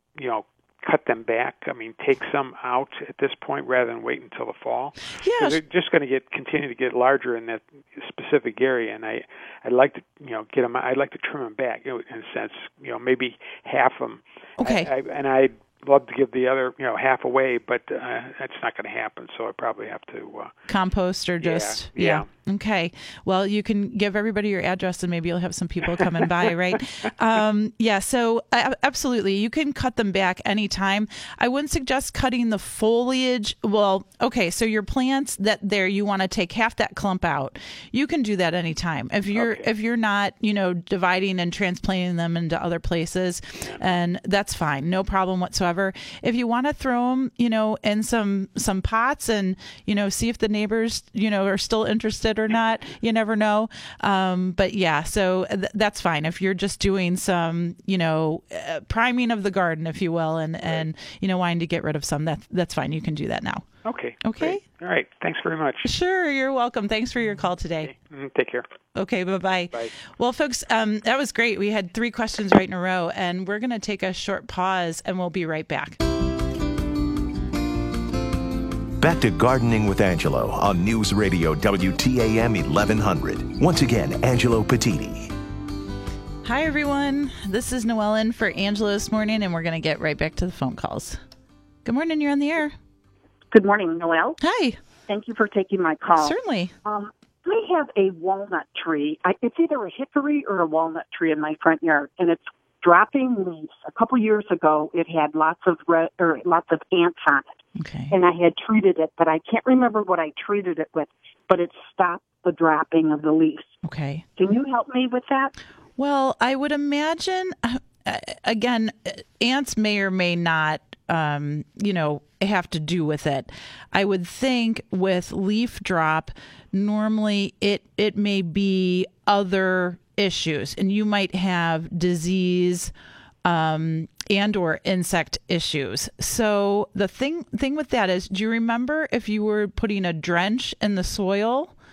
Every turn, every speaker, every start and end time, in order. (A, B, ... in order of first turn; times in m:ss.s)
0:00.2-0:20.5 A
0:05.2-0:05.6 B
0:14.6-0:14.9 B
0:20.7-1:03.6 B
0:21.4-0:22.3 A
0:39.3-0:39.6 A
1:03.8-1:05.9 A
1:04.2-1:04.6 B
1:05.8-1:07.9 B
1:07.8-1:08.7 A
1:08.9-1:16.0 B
1:19.0-1:25.3 C
1:26.4-1:31.2 B
1:31.8-1:32.8 B
1:33.5-1:34.4 D
1:34.4-1:34.8 B
1:35.1-1:47.5 D
1:36.2-1:36.7 B
1:47.8-1:48.1 B
1:48.1-1:53.7 D
1:53.8-1:54.2 B
1:54.4-1:55.5 D
1:56.0-2:12.9 B
2:13.4-2:21.7 B